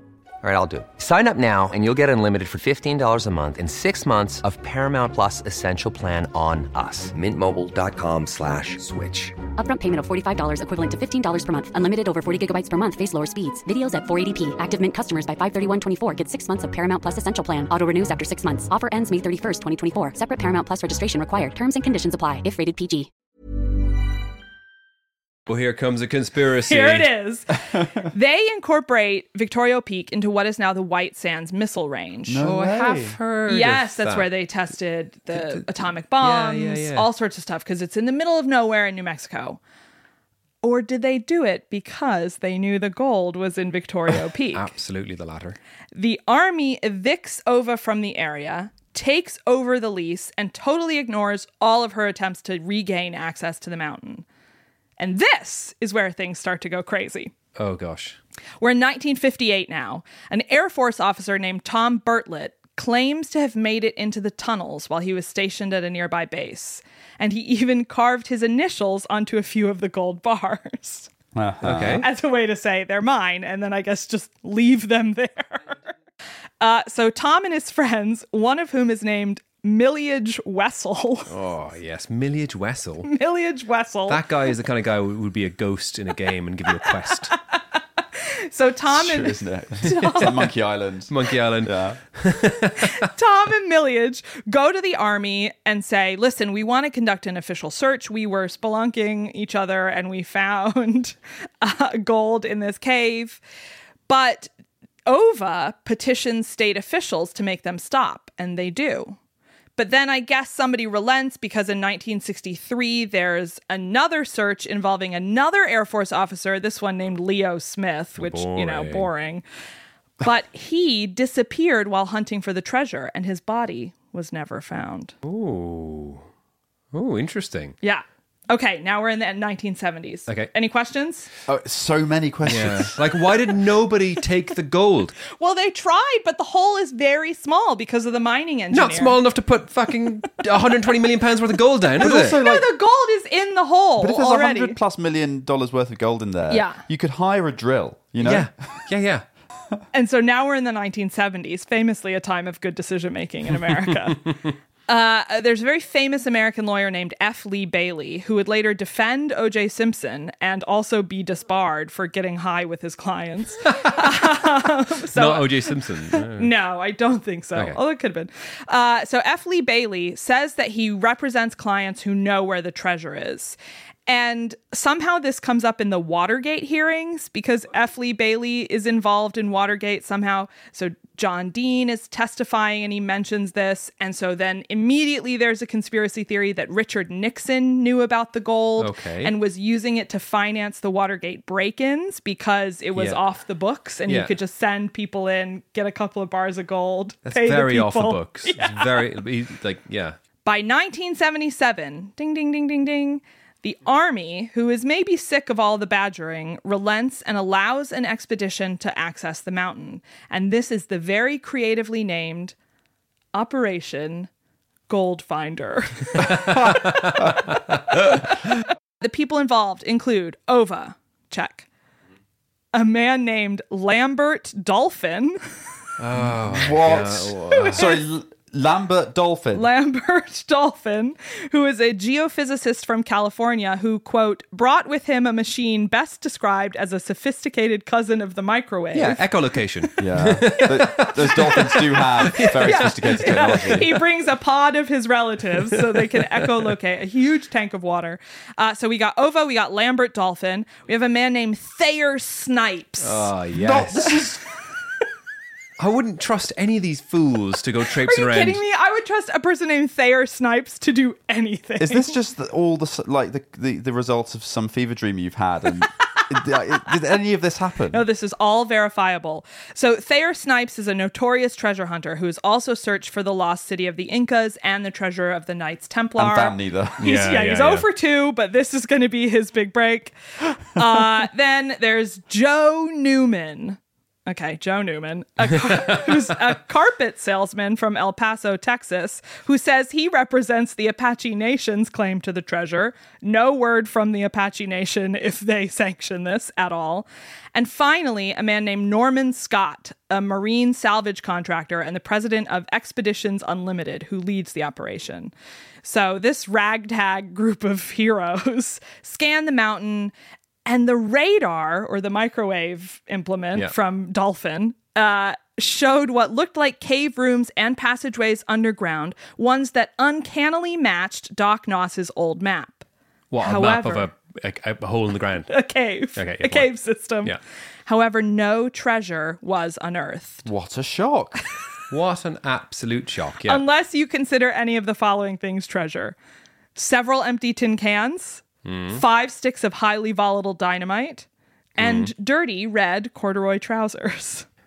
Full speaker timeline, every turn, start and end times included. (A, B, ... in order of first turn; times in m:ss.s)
0:00.4-0:09.3 A
0:09.6-0:23.1 B
0:25.5-0:27.1 C
0:26.7-0:32.4 D
0:32.3-0:33.2 E
0:32.4-0:34.3 C
0:33.5-0:39.6 D
0:35.3-0:37.1 C
0:40.6-0:44.7 D
0:44.5-0:45.6 C
0:45.9-0:54.2 D
0:55.0-0:57.3 D
0:57.6-0:58.2 C
0:58.6-1:11.1 D
1:11.4-1:12.1 E
1:11.6-1:12.0 C
1:12.0-1:15.8 D
1:16.6-1:21.3 D
1:21.3-1:23.1 C
1:23.0-1:24.2 D
1:24.1-1:27.4 C
1:28.2-1:30.4 D
1:28.9-1:31.1 E
1:29.8-1:30.4 C
1:31.1-1:33.0 C
1:31.6-1:32.0 E
1:32.8-1:43.4 D
1:44.1-1:44.5 D
1:45.1-1:49.2 D
1:49.8-1:59.4 D
1:58.2-1:59.1 C
2:00.2-2:05.1 D
2:05.2-2:06.2 C
2:06.9-2:07.8 C
2:07.8-2:11.3 D
2:10.3-2:10.5 C
2:11.5-2:13.0 E
2:12.4-2:15.2 C
2:15.3-2:19.2 D
2:18.7-2:22.4 C
2:22.0-2:22.7 E
2:22.0-2:24.8 D
2:24.0-2:28.5 E
2:26.5-2:26.8 D
2:28.2-2:29.2 C
2:29.9-2:34.3 D
2:34.9-3:19.0 D
2:43.7-2:44.0 C
2:45.1-2:46.5 C
3:08.8-3:09.4 C
3:13.0-3:13.2 C
3:14.1-3:14.4 C
3:17.3-3:20.2 C
3:20.5-3:32.6 D
3:33.3-3:34.3 D
3:34.9-3:36.8 D
3:39.0-3:41.7 D
3:42.7-3:45.4 D
3:46.0-3:47.9 C
3:46.2-3:49.7 E
3:47.6-3:48.0 D
3:49.5-3:59.2 D
3:58.9-4:04.0 C
4:00.0-4:04.0 E
4:00.4-4:00.6 D
4:02.2-4:13.3 D
4:05.9-4:06.5 C
4:13.0-4:14.2 C
4:13.6-4:14.4 E
4:15.8-4:18.6 C
4:18.0-4:22.2 D
4:21.8-4:28.0 E
4:27.9-4:40.2 D
4:36.2-4:37.0 E
4:37.0-4:37.9 C
4:40.7-5:05.3 D
5:05.8-5:10.1 D
5:10.7-5:22.8 D
5:23.3-5:25.6 C
5:23.4-5:24.1 D
5:25.5-5:27.4 D
5:26.1-5:27.4 C
5:27.9-5:30.4 D
5:30.4-5:31.4 E
5:31.9-5:33.6 C
5:33.5-5:36.2 D
5:36.8-5:41.3 D
5:38.6-5:39.0 C
5:41.8-5:44.5 D
5:41.8-5:42.1 C